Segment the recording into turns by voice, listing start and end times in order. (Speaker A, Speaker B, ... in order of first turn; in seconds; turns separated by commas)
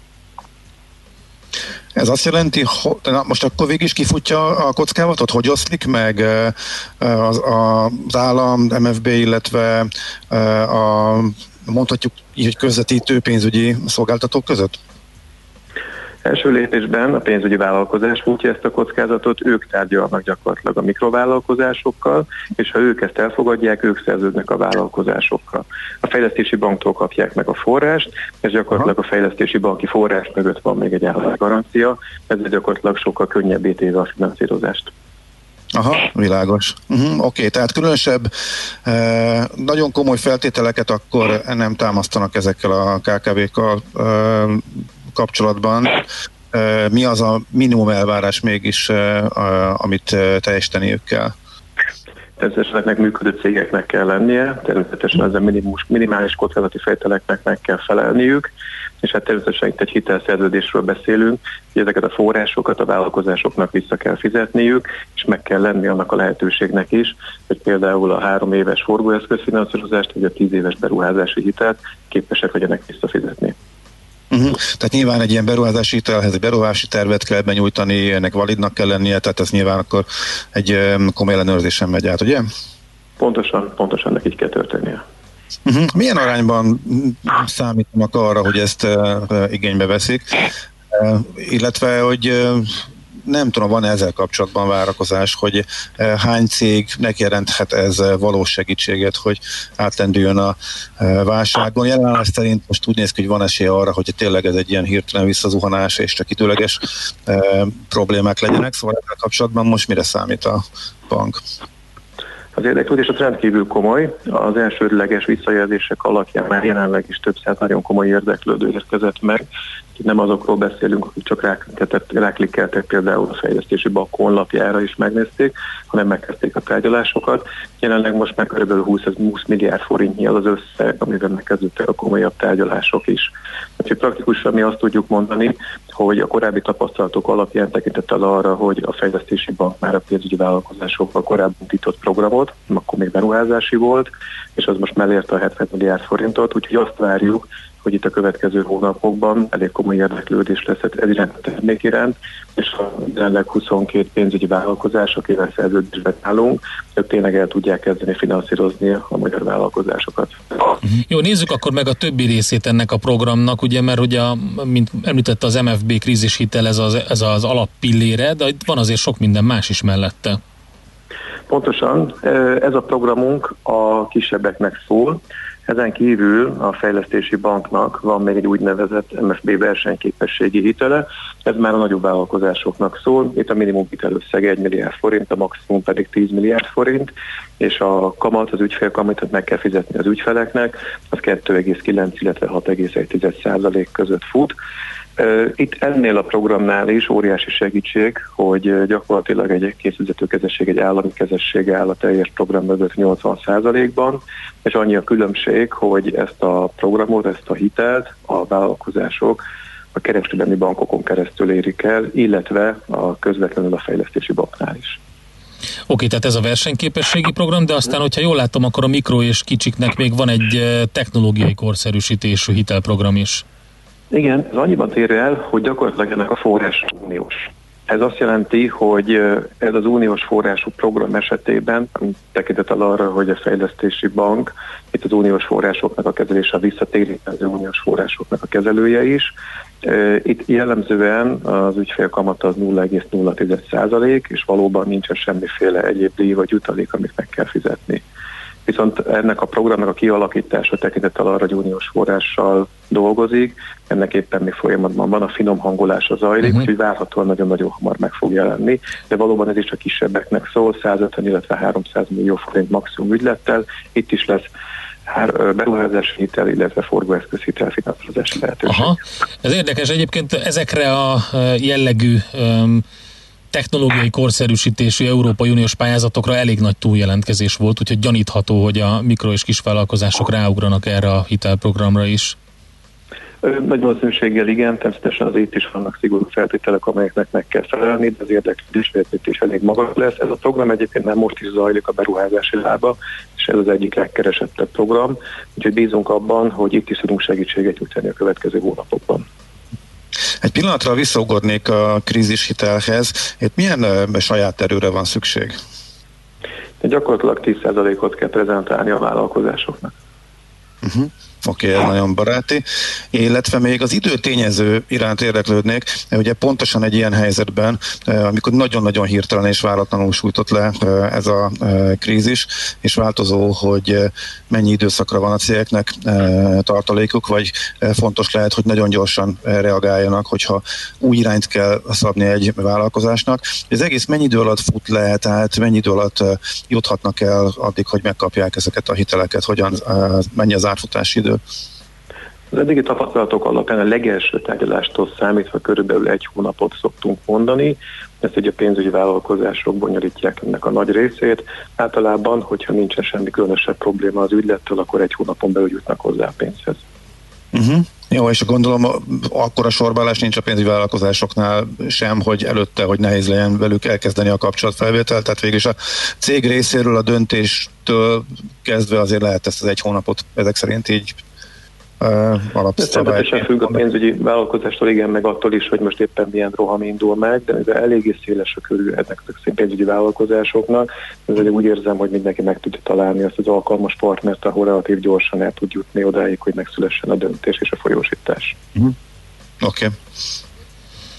Speaker A: 1.9-14.8, Speaker B: 16.2-34.9, Speaker A: 35.7-38.3, Speaker A: 38.8-51.3, Speaker B: 52.4-58.5, Speaker B: 59.0-73.5, Speaker A: 74.3-82.5, Speaker B: 83.2-85.0, Speaker A: 85.7-111.4, Speaker B: 112.5-119.4, Speaker B: 120.0-160.8, Speaker C: 161.1-170.4, Speaker B: 171.5-194.5, Speaker B: 195.2-209.4, Speaker B: 209.9-215.0, Speaker C: 215.9-223.4, Speaker B: 224.1-239.3, Speaker B: 239.8-248.0, Speaker B: 248.7-264.4, Speaker B: 265.1-269.0, Speaker C: 268.7-272.8, Speaker C: 273.5-282.4, Speaker B: 283.4-299.2, Speaker A: 300.4-305.6, Speaker B: 306.8-309.9, Speaker A: 310.8-341.4, Speaker B: 342.5-356.8, Speaker A: 357.5-371.2, Speaker A: 372.0-373.8, Speaker B: 372.8-388.5, Speaker A: 389.6-389.9